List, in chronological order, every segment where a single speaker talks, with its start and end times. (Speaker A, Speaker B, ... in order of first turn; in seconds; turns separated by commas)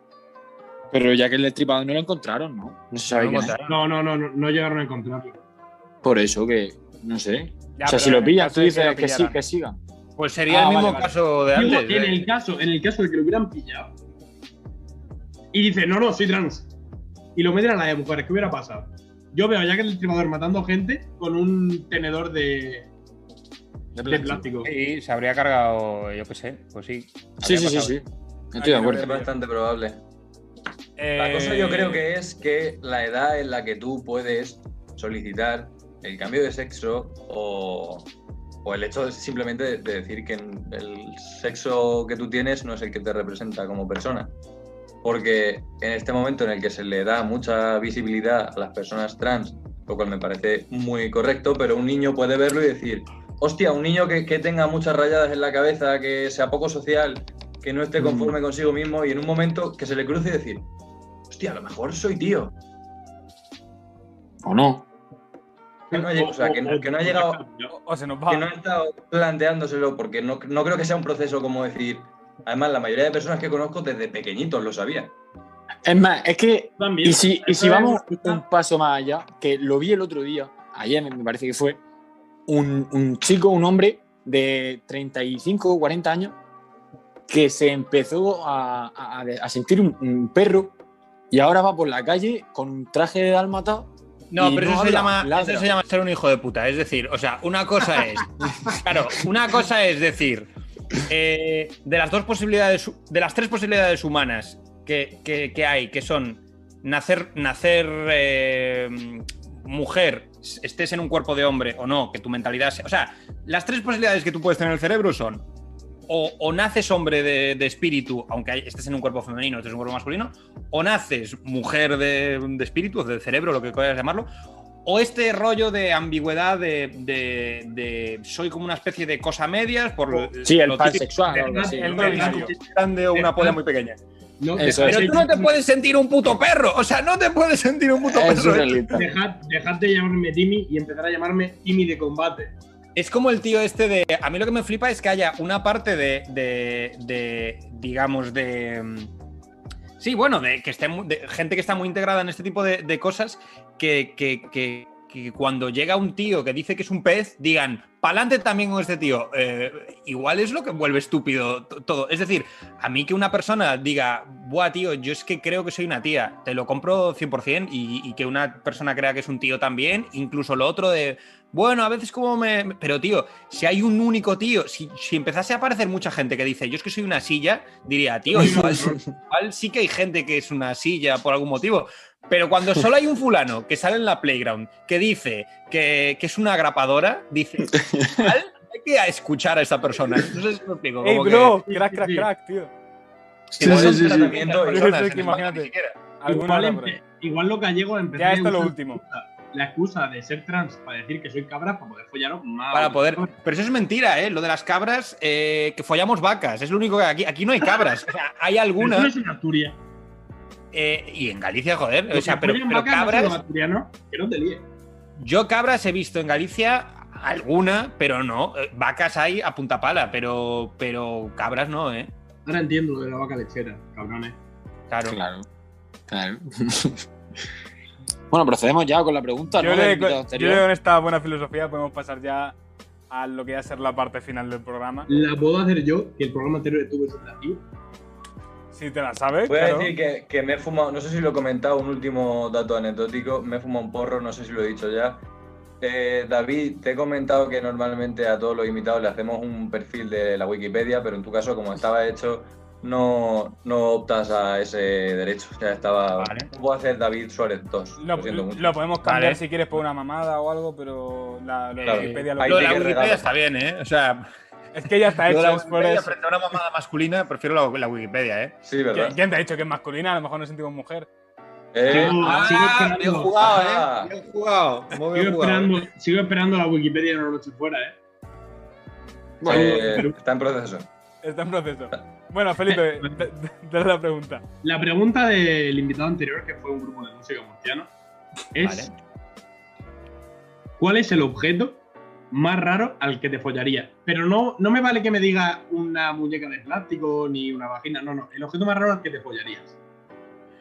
Speaker A: 0.9-3.5, Speaker B: 3.1-3.8, Speaker C: 3.7-5.4, Speaker A: 6.0-9.8, Speaker D: 7.8-9.4, Speaker B: 10.2-12.3, Speaker A: 10.5-11.1, Speaker C: 11.5-13.9, Speaker C: 15.5-16.7, Speaker C: 17.4-22.9, Speaker A: 23.9-24.5, Speaker C: 24.1-24.7, Speaker B: 24.6-28.0, Speaker A: 27.4-29.1, Speaker D: 28.6-29.3, Speaker E: 28.8-30.0, Speaker D: 31.0-32.1, Speaker E: 31.2-38.1, Speaker E: 38.6-44.3, Speaker E: 45.0-60.7, Speaker A: 58.0-58.4, Speaker E: 61.3-62.5, Speaker A: 64.4-64.9, Speaker E: 65.9-67.4, Speaker C: 65.9-67.7, Speaker D: 67.7-68.5, Speaker E: 68.3-75.1, Speaker A: 75.8-81.8, Speaker C: 76.8-78.4, Speaker A: 82.5-86.4, Speaker A: 87.3-90.8, Speaker A: 91.3-95.7, Speaker B: 94.3-115.5, Speaker B: 116.1-124.3, Speaker B: 124.8-131.1, Speaker A: 130.4-132.2, Speaker C: 131.3-132.6, Speaker D: 131.7-132.5, Speaker B: 132.0-134.0, Speaker C: 133.1-133.6, Speaker C: 134.4-135.6, Speaker A: 134.6-135.2, Speaker B: 134.7-138.9, Speaker A: 138.0-139.1, Speaker C: 138.9-142.6, Speaker B: 143.0-149.1, Speaker B: 150.0-191.6, Speaker C: 178.3-179.0, Speaker A: 178.3-179.0, Speaker A: 187.7-188.3, Speaker D: 191.0-192.7, Speaker C: 191.7-192.3, Speaker A: 193.5-194.4, Speaker B: 193.6-196.0, Speaker E: 193.6-194.9, Speaker D: 194.5-197.0, Speaker C: 196.3-203.3, Speaker D: 198.2-199.0, Speaker B: 202.7-209.1, Speaker C: 208.8-209.8, Speaker B: 210.7-213.4, Speaker C: 212.1-214.7, Speaker B: 215.2-222.1, Speaker C: 222.5-224.4, Speaker B: 224.9-225.2, Speaker A: 225.1-225.5, Speaker A: 226.1-227.0, Speaker A: 228.3-230.7, Speaker D: 229.6-232.6, Speaker D: 233.1-235.2, Speaker C: 235.1-237.6, Speaker D: 238.7-239.9, Speaker E: 239.5-245.2, Speaker E: 245.8-258.7, Speaker B: 256.2-256.5, Speaker D: 258.0-263.0, Speaker B: 259.0-259.4, Speaker E: 261.8-263.3, Speaker B: 261.8-264.3, Speaker D: 264.7-266.2, Speaker B: 265.2-268.6, Speaker E: 268.6-269.2, Speaker D: 268.9-271.1, Speaker E: 271.7-272.6, Speaker C: 271.9-273.4, Speaker B: 271.9-275.8, Speaker E: 273.4-274.1, Speaker C: 275.1-278.0, Speaker A: 279.4-279.9, Speaker E: 279.4-280.9, Speaker C: 279.5-280.1, Speaker D: 281.2-284.4, Speaker C: 284.6-287.9, Speaker C: 288.6-288.9, Speaker B: 288.6-288.9, Speaker C: 290.8-299.8